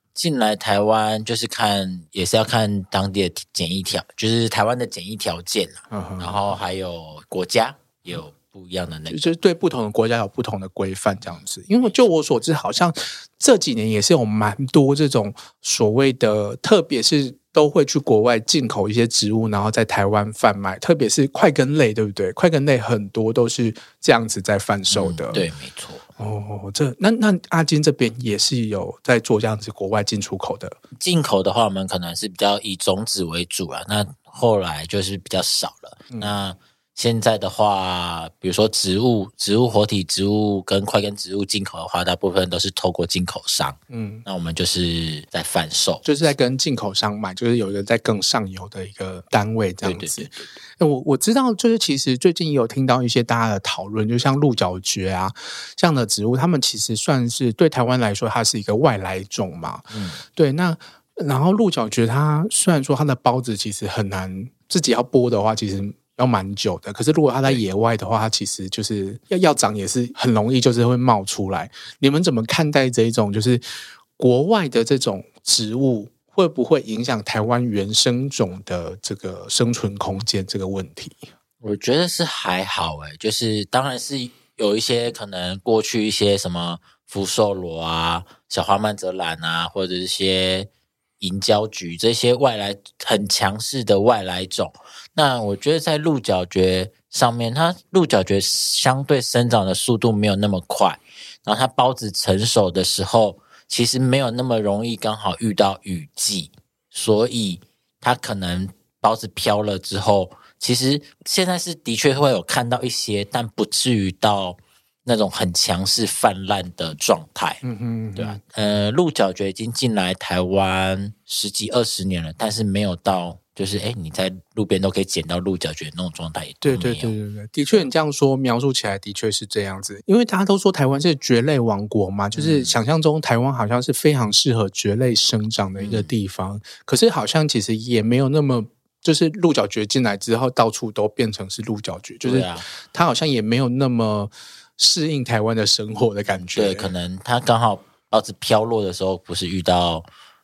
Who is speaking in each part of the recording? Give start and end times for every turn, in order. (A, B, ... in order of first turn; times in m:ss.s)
0:00.2-0:09.3 A
0:05.9-0:06.4 B
0:09.1-0:25.4 B
0:24.9-0:26.0 A
0:26.2-0:30.8 B
0:31.0-0:46.0 A
0:43.9-0:44.2 B
0:46.0-1:13.6 B
0:49.8-0:50.3 A
0:59.9-1:00.2 A
1:14.2-1:21.2 B
1:21.6-1:30.7 A
1:31.2-1:57.6 A
1:57.6-1:58.4 B
1:58.2-2:07.1 A
2:06.6-2:26.9 B
2:12.3-2:12.7 A
2:15.8-2:16.1 A
2:22.2-2:22.6 A
2:26.5-2:30.0 A